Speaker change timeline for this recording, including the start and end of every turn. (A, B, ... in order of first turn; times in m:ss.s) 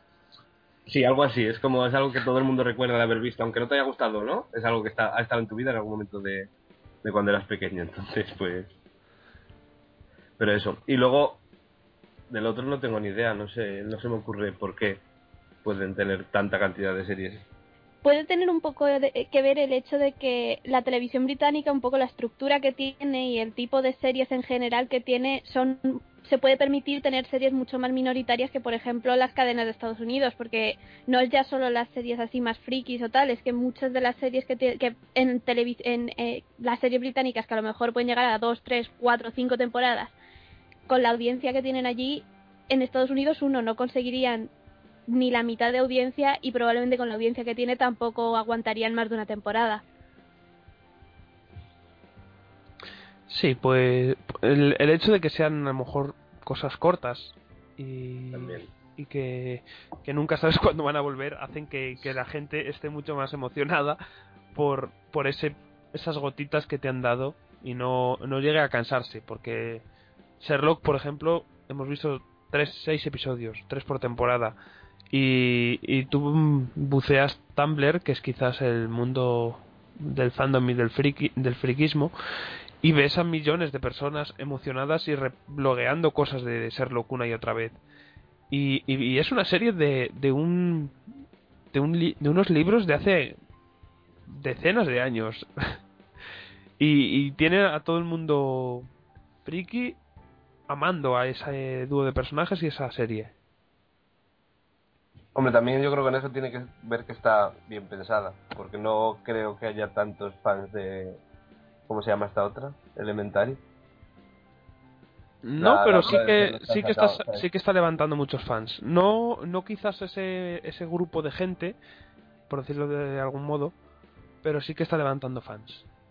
0:00.9-0:06.5 A
0:07.0-0:08.7 A
0:10.4-0:11.4 A
0:12.3-0:15.0 A
0:15.6-0:17.4 A
0:18.0-0:40.1 B
0:40.9-0:44.5 B
0:45.1-0:49.8 B
0:53.3-1:04.0 C
0:58.3-0:58.7 A
1:04.5-1:09.8 C
1:10.4-1:14.6 C
1:15.1-1:22.1 C
1:22.8-1:27.8 C
1:28.5-1:31.0 C
1:31.7-1:33.4 C
1:34.3-1:35.5 C
1:36.8-1:38.9 C
1:39.4-1:40.0 C
1:40.7-1:43.3 C
1:45.4-1:51.2 A
1:51.9-1:53.6 A
1:55.4-2:01.8 C
1:55.6-1:57.5 A
2:02.5-2:03.7 C
2:04.4-2:05.9 C